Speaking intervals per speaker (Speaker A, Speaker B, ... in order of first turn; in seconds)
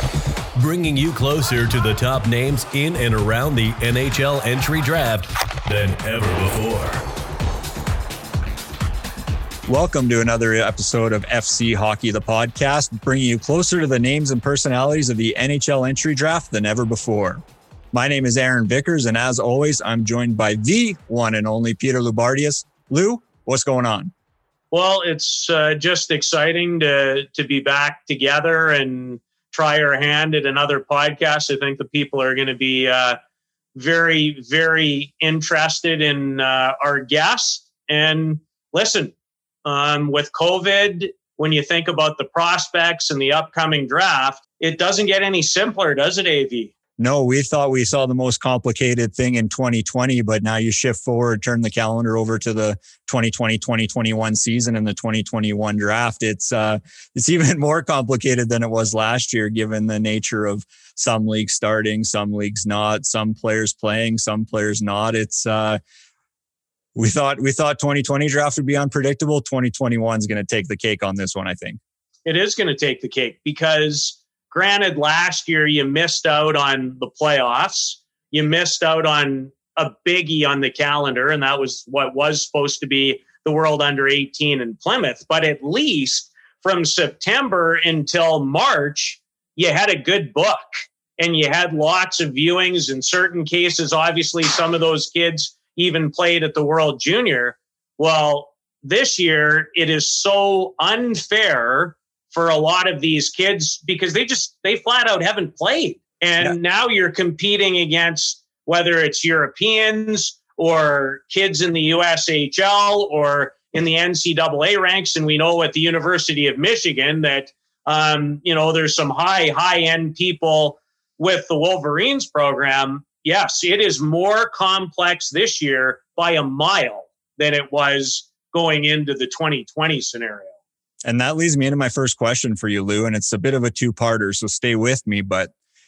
Speaker A: 0.6-7.0
Speaker B: 9.7-17.4, 17.9-24.1, 47.0-65.8, 66.9-71.8, 131.0-135.5
Speaker C: 24.7-33.2, 33.7-39.1, 39.6-46.7, 72.2-130.5